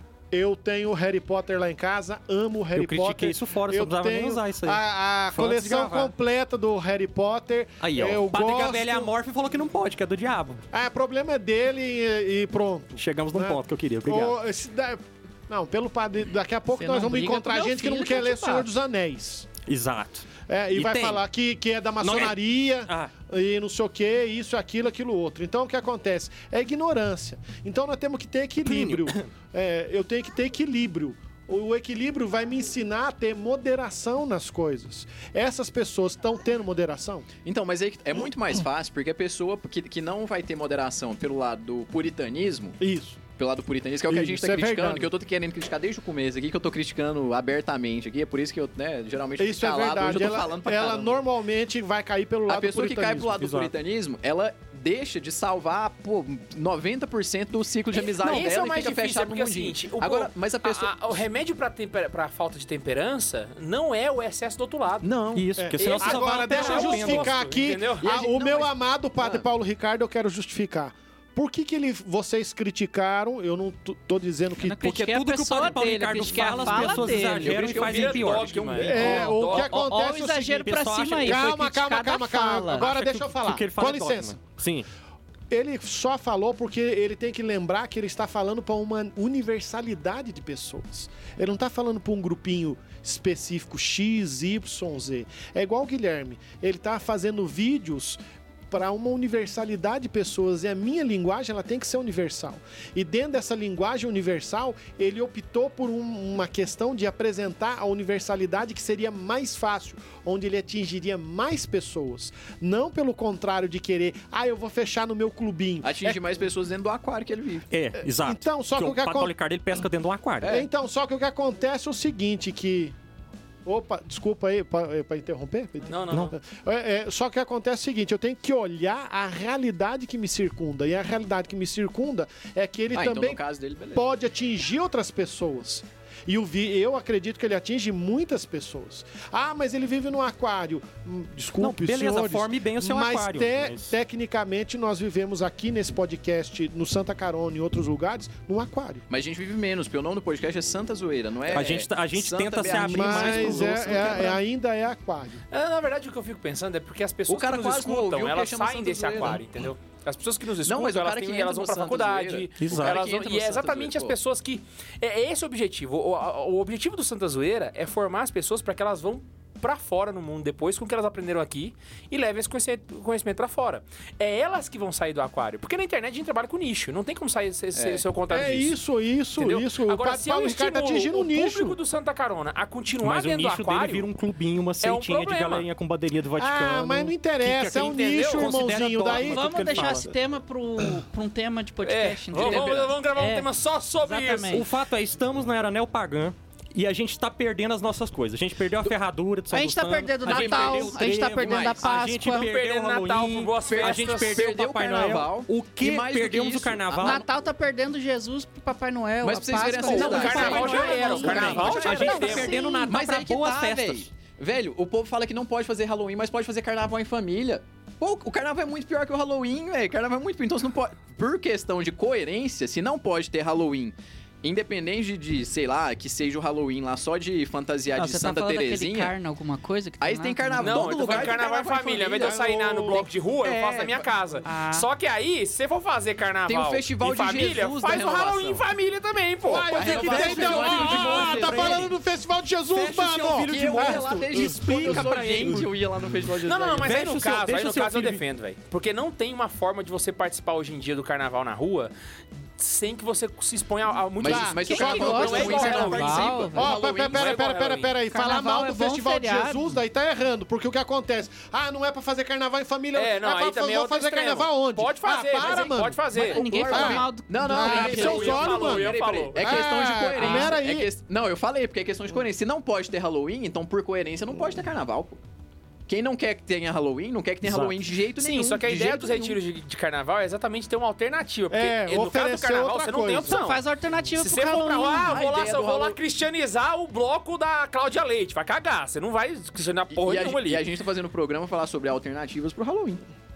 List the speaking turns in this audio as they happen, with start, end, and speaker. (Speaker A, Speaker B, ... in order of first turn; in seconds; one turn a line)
Speaker A: 0.3-9.1
Speaker B: 2.7-6.1
Speaker B: 7.8-10.6
Speaker A: 10.7-19.5
Speaker B: 13.0-14.3
Speaker C: 16.7-18.7
Speaker B: 19.6-21.2
Speaker A: 20.5-37.3
Speaker B: 22.0-23.1
Speaker B: 28.6-29.2
Speaker D: 37.4-42.8
Speaker A: 42.8-43.2
Speaker D: 43.3-51.2
Speaker A: 44.1-45.1
Speaker A: 49.4-53.3
Speaker D: 52.5-61.0
Speaker B: 53.1-53.7
Speaker E: 58.1-65.1
Speaker D: 65.0-65.5
Speaker B: 65.3-67.3
Speaker A: 65.5-74.8
Speaker E: 65.8-68.1
Speaker D: 68.0-69.4
Speaker C: 74.6-77.6
Speaker B: 74.8-79.6
Speaker D: 76.8-78.9
Speaker E: 77.5-79.8
Speaker A: 78.8-84.4
Speaker C: 78.9-82.9
Speaker B: 80.6-81.5
Speaker B: 82.7-84.9
Speaker A: 85.5-116.2
Speaker D: 115.8-117.7
Speaker B: 117.7-120.6
Speaker A: 118.2-119.3
Speaker D: 120.4-120.7
Speaker A: 120.5-122.9
Speaker A: 123.6-133.4
Speaker E: 125.8-126.3
Speaker B: 126.1-126.3
Speaker D: 132.9-134.1
Speaker A: 133.9-149.0
Speaker B: 141.6-143.9
Speaker D: 149.1-154.4
Speaker B: 151.5-154.4
Speaker A: 152.7-155.4
Speaker E: 155.5-178.8
Speaker D: 157.3-159.4
Speaker D: 160.6-164.2
Speaker B: 162.6-163.0
Speaker D: 177.7-178.0
Speaker A: 178.3-181.8
Speaker E: 179.4-184.1
Speaker B: 183.0-190.1
Speaker E: 184.8-185.7
Speaker A: 186.4-189.9
Speaker E: 187.7-188.7
Speaker C: 189.1-193.5
Speaker E: 191.8-194.7
Speaker D: 192.3-192.9
Speaker C: 194.0-194.7
Speaker B: 194.5-207.2
Speaker C: 199.5-202.5
Speaker D: 200.2-201.9
Speaker E: 202.2-204.4
Speaker D: 203.7-207.2
Speaker C: 207.0-213.0
Speaker D: 209.2-229.1
Speaker E: 209.8-212.6
Speaker B: 209.9-214.1
Speaker C: 227.9-231.0
Speaker D: 230.0-232.4
Speaker E: 230.6-239.9
Speaker A: 231.9-233.1
Speaker D: 233.4-234.1
Speaker C: 234.4-234.9
Speaker D: 236.5-238.6
Speaker A: 239.4-245.6
Speaker D: 239.7-241.8
Speaker B: 239.7-242.0
Speaker B: 242.7-245.7
Speaker D: 243.5-247.0
Speaker E: 246.4-251.9
Speaker B: 246.8-248.2
Speaker E: 252.6-256.4
Speaker D: 254.2-257.4
Speaker A: 254.2-266.0
Speaker C: 254.6-256.8
Speaker E: 257.1-257.9
Speaker C: 258.1-259.6
Speaker E: 262.9-266.5
Speaker C: 266.1-268.3
Speaker D: 266.2-275.2
Speaker A: 266.7-270.9
Speaker E: 267.6-269.6
Speaker C: 270.1-270.5
Speaker D: 275.9-279.4
Speaker B: 277.4-277.8
Speaker E: 278.2-283.6
Speaker A: 281.5-283.4
Speaker C: 283.2-285.3
Speaker E: 284.1-290.6
Speaker D: 285.1-286.0
Speaker D: 289.9-293.0